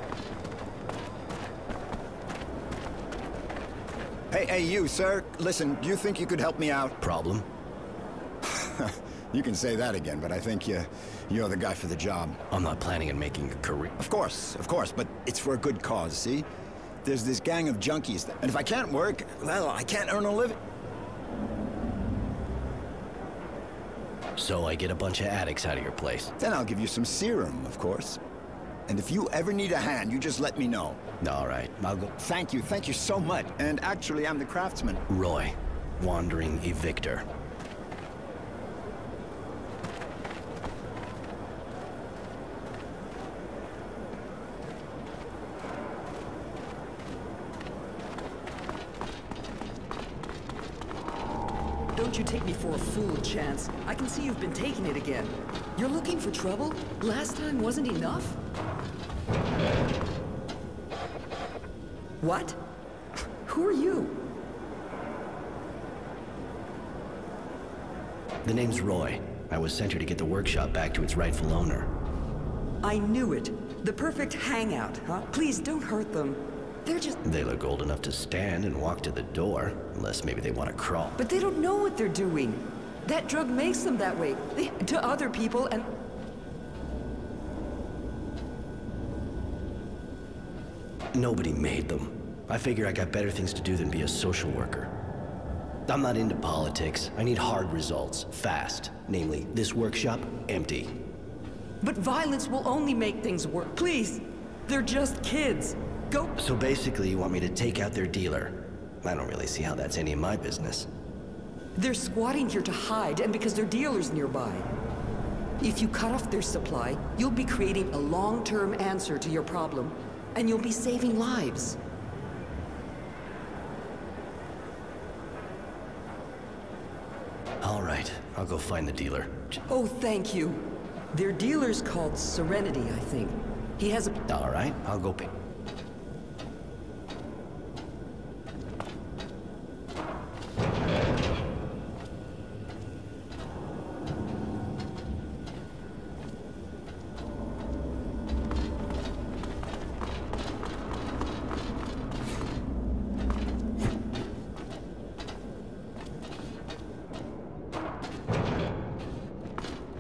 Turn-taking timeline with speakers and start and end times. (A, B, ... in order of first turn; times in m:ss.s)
0:04.3-0:07.0 A
0:07.0-0:07.5 B
0:08.4-0:12.4 A
0:12.5-0:13.9 B
0:14.0-0:16.5 A
0:17.0-0:20.6 A
0:24.4-0:26.3 B
0:26.4-0:28.2 A
0:28.9-0:31.0 A
0:31.2-0:32.1 B
0:32.2-0:35.0 A
0:35.1-0:37.2 B
0:51.9-0:58.4 C
1:02.2-1:02.6 C
1:03.4-1:04.3 C
1:08.4-1:11.9 B
1:12.8-1:17.2 C
1:17.2-1:21.2 B
1:21.2-1:26.0 C
1:31.1-1:34.9 B
1:35.9-1:41.0 B
1:41.8-1:46.3 C
1:46.4-1:50.9 B
1:51.8-1:54.7 C
1:55.6-2:01.8 C
2:07.6-2:09.6 B
2:09.7-2:14.2 C
2:14.3-2:15.3 B